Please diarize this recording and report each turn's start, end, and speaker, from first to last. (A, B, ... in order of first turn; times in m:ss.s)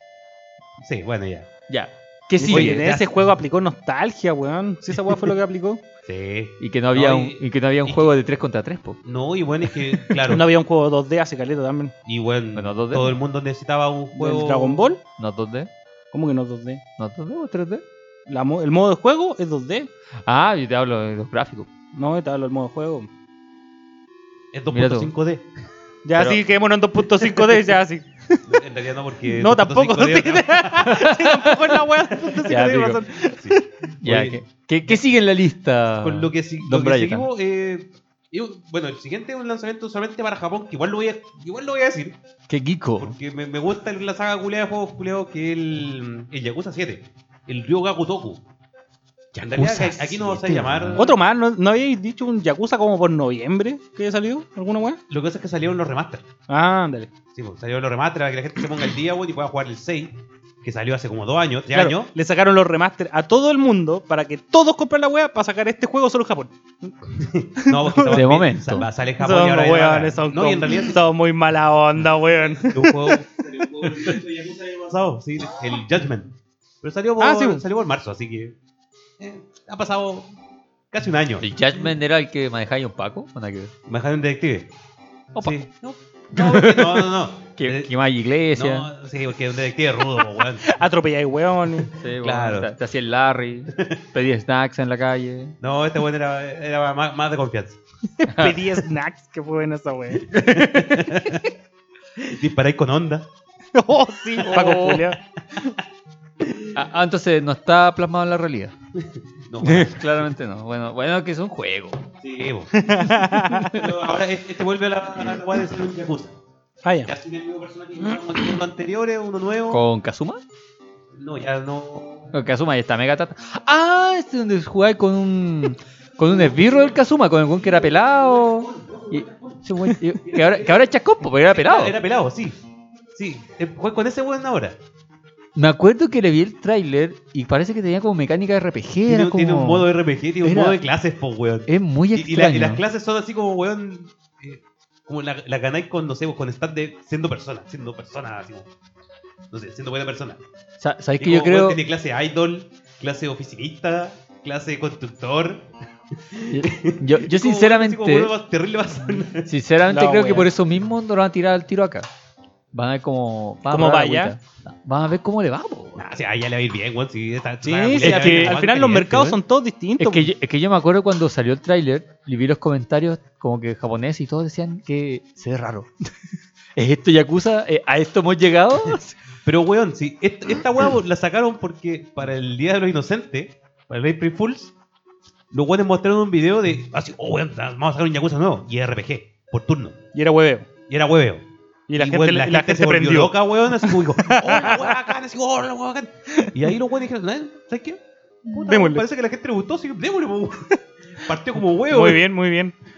0:00.8-0:01.5 A
0:01.7-0:03.0 B
0:02.4-0:05.8 C
0:02.5-0:03.1 A
0:06.1-0:08.1 A
0:06.6-0:09.0 B
0:09.0-0:10.5 A
0:10.3-0:11.9 C
0:12.1-0:14.9 A
0:12.6-0:13.1 B
0:14.2-0:15.0 C
0:15.2-0:15.7 B
0:16.1-0:16.8 C
0:17.0-0:17.8 B
0:18.3-0:19.9 C
0:20.3-0:21.7 B
0:21.9-0:23.1 C
0:24.5-0:25.5 A
0:24.7-0:25.1 B
0:26.0-0:28.4 C
0:26.2-0:26.4 B
0:28.5-0:31.0 A
0:29.3-0:33.6 C
0:30.8-0:31.8 B
0:32.4-0:33.0 B
0:33.4-0:34.4 A
0:34.0-0:37.3 B
0:36.0-0:42.2 A
0:42.5-0:43.1 B
0:43.0-0:48.4 A
0:49.4-0:51.1 A
0:49.4-0:51.1 B
0:51.0-0:55.0 C
0:55.1-0:56.2 A
0:56.5-0:57.1 C
0:57.3-1:02.1 A
1:01.7-1:06.5 C
1:07.2-1:11.0 A
1:07.6-1:08.2 C
1:08.1-1:08.9 B
1:09.2-1:14.2 C
1:12.6-1:16.3 A
1:16.8-1:18.6 A
1:17.2-1:17.6 C
1:19.2-1:20.3 A
1:20.9-1:21.5 A
1:21.4-1:23.7 B
1:23.9-1:24.7 A
1:25.4-1:25.6 B
1:25.4-1:27.9 A
1:26.3-1:28.9 B
1:28.6-1:30.7 A
1:30.6-1:31.9 C
1:31.9-1:35.6 B
1:32.2-1:32.7 A
1:35.6-1:37.8 A
1:38.2-1:40.6 C
1:38.3-1:38.6 B
1:40.3-1:41.5 A
1:42.2-1:43.3 A
1:43.8-1:45.8 C
1:44.4-1:45.1 B
1:46.4-1:46.7 A
1:46.8-1:48.7 B
1:49.0-1:50.3 A
1:49.6-1:52.0 B
1:52.2-1:56.3 A
1:52.8-1:53.8 C
1:53.4-1:53.8 B
1:56.8-1:57.1 C
1:57.1-1:59.8 A
1:59.7-2:00.4 B
2:01.2-2:02.3 A
2:02.3-2:12.0 B
2:06.3-2:06.8 A
2:08.6-2:10.9 A
2:11.4-2:12.6 A
2:13.2-2:14.8 A
2:15.6-2:19.9 B
2:19.1-2:28.7 A
2:20.4-2:20.8 B
2:21.7-2:22.8 B
2:29.5-2:30.4 A
2:30.8-2:31.8 B
2:31.2-2:35.7 A
2:36.3-2:39.5 A
2:36.5-2:38.3 B
2:39.4-2:42.1 B
2:39.9-2:40.5 C
2:42.7-2:46.0 B
2:43.7-2:44.3 C
2:46.0-2:49.4 A
2:47.6-2:50.3 C
2:48.0-2:48.6 B
2:50.0-2:55.9 B
2:56.8-2:59.2 B
2:59.4-3:04.7 A
3:05.5-3:10.0 A
3:10.1-3:10.7 C
3:10.9-3:11.4 A
3:11.9-3:15.1 C
3:12.0-3:22.3 A
3:18.6-3:19.0 C
3:21.9-3:22.8 C